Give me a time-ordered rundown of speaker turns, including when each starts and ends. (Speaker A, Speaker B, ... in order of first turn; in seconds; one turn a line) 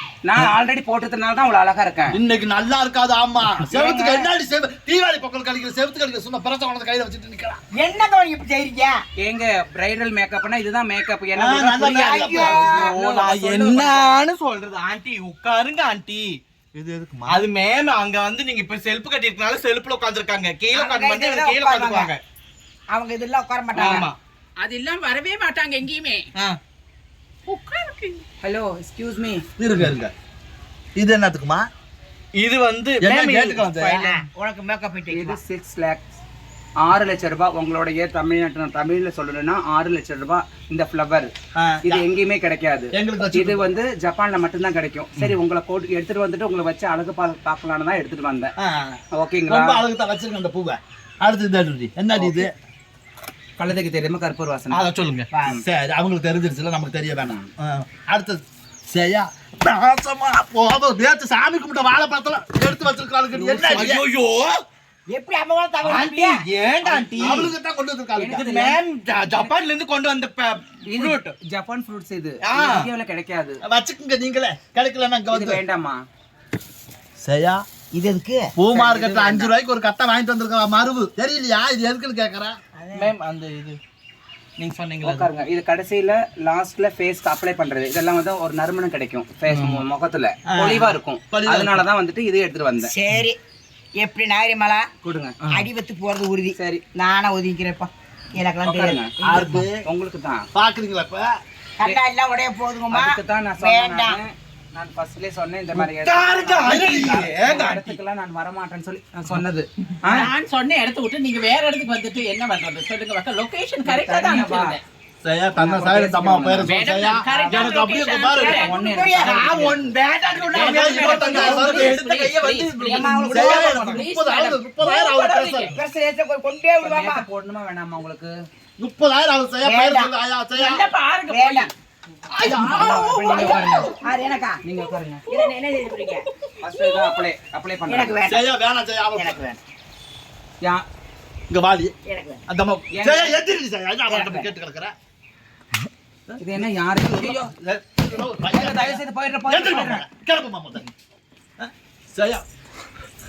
Speaker A: 0.2-2.2
Speaker B: 2.1-7.6
Speaker A: 3.7-4.3
Speaker C: 7.7-9.0
Speaker A: 9.2-14.2
Speaker B: 11.4-12.9
Speaker C: 11.9-12.8
Speaker D: 12.7-16.4
Speaker B: 16.8-17.4
Speaker D: 17.3-22.2
Speaker C: 20.7-22.1
Speaker C: 22.9-24.1
Speaker D: 23.8-24.2
Speaker E: 24.6-26.3
Speaker E: 27.5-28.2
Speaker A: 28.4-29.4
Speaker B: 29.6-30.1
Speaker B: 31.0-31.7
Speaker D: 32.4-34.1
Speaker B: 33.0-34.1
Speaker C: 34.0-35.4
Speaker A: 35.1-36.1
Speaker A: 36.8-41.3
Speaker B: 41.6-42.0
Speaker A: 41.9-48.5
Speaker B: 42.9-43.7
Speaker B: 48.6-52.5
Speaker A: 49.1-49.8
Speaker A: 52.1-52.4
Speaker A: 53.6-54.9
Speaker D: 54.7-55.3
Speaker C: 55.3-55.6
Speaker B: 55.5-64.0
Speaker A: 57.2-57.5
Speaker A: 63.4-63.9
Speaker D: 63.6-64.6
Speaker C: 65.1-66.4
Speaker D: 65.8-67.5
Speaker B: 66.8-68.5
Speaker A: 68.2-68.8
Speaker D: 68.3-71.3
Speaker A: 70.9-73.6
Speaker D: 72.4-72.9
Speaker B: 73.6-75.6
Speaker A: 75.3-76.0
Speaker B: 77.2-77.6
Speaker C: 77.9-78.5
Speaker B: 78.6-82.6
Speaker A: 78.7-79.5
Speaker C: 82.8-83.1
Speaker D: 82.9-83.8
Speaker D: 84.6-85.3
Speaker A: 85.0-92.9
Speaker D: 89.5-89.8
Speaker B: 90.5-91.8
Speaker C: 92.8-93.4
Speaker C: 94.0-94.9
Speaker A: 95.0-95.3
Speaker D: 95.4-95.7
Speaker C: 95.5-99.0
Speaker A: 96.6-96.8
Speaker A: 98.6-100.5
Speaker B: 99.2-99.9
Speaker B: 100.5-101.3
Speaker C: 101.8-104.2
Speaker A: 102.9-110.3
Speaker D: 105.8-108.0
Speaker B: 106.7-107.3
Speaker E: 110.1-114.8
Speaker C: 113.8-114.8
Speaker B: 115.2-118.7
Speaker A: 115.6-116.7
Speaker E: 116.6-118.7
Speaker C: 117.2-117.8
Speaker C: 118.3-122.0
Speaker A: 118.4-119.9
Speaker E: 120.3-122.9
Speaker D: 120.4-124.1
Speaker B: 120.5-122.0
Speaker C: 122.8-124.0
Speaker B: 123.3-125.8
Speaker E: 123.8-125.8
Speaker C: 125.7-127.2
Speaker A: 126.8-128.3
Speaker B: 128.8-130.9
Speaker C: 129.6-130.1
Speaker E: 130.6-131.7
Speaker C: 131.3-131.7
Speaker D: 132.3-133.9
Speaker B: 132.4-133.5
Speaker A: 132.6-133.9
Speaker E: 133.5-133.9
Speaker C: 133.5-134.6
Speaker A: 134.7-135.2
Speaker C: 135.3-136.3
Speaker A: 136.6-138.2
Speaker C: 137.9-138.4
Speaker B: 138.2-139.4
Speaker C: 139.2-139.6
Speaker B: 141.5-141.9
Speaker C: 142.1-142.4
Speaker B: 142.5-144.9
Speaker A: 142.9-143.4
Speaker C: 144.1-144.5
Speaker B: 146.3-150.9
Speaker A: 146.4-147.5
Speaker A: 148.5-150.1
Speaker B: 151.6-152.4